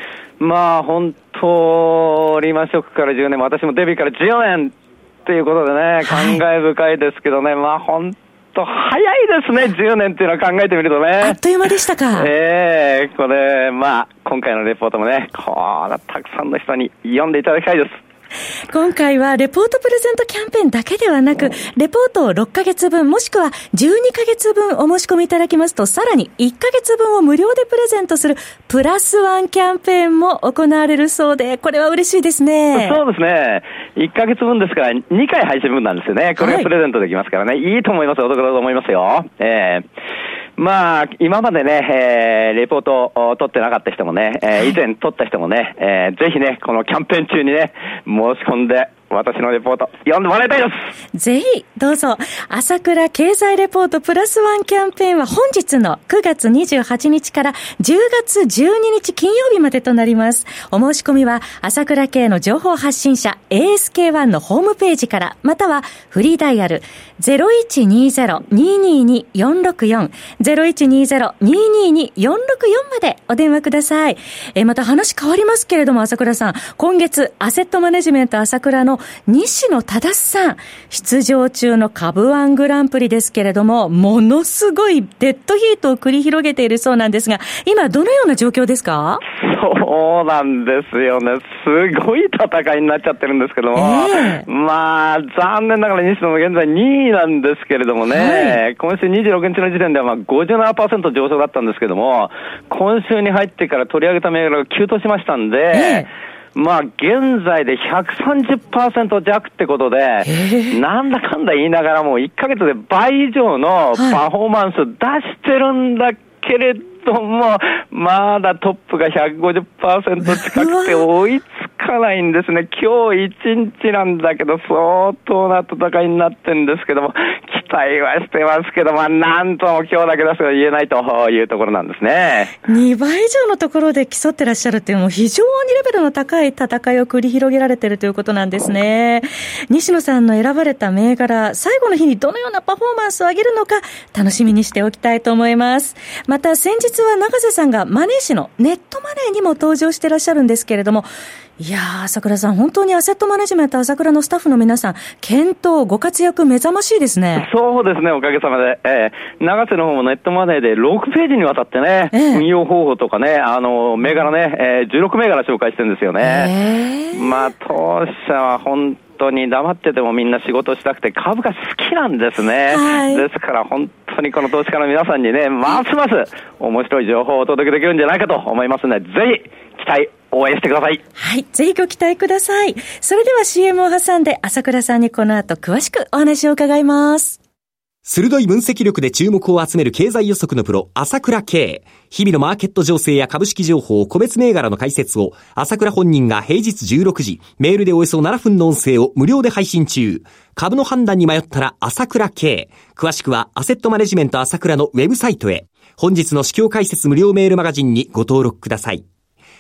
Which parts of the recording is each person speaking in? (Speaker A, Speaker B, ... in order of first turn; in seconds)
Speaker A: 0.4-4.7, 5.3-11.4, 12.2-17.9, 32.7-39.9, 40.6-50.8, 89.3-132.5, 157.3-166.5, 167.1-181.0
Speaker B: 6.0-6.4, 11.2-12.3, 18.7-33.0, 36.4-36.7, 51.1-89.2, 93.7-94.5, 98.0-98.6, 105.7-106.1, 110.2-110.8, 114.0-114.2, 120.2-121.0, 132.6-151.1, 151.6-157.5, 162.1-162.4, 166.2-167.5, 172.7-173.2, 181.2-187.4
Speaker C: 188.1-209.1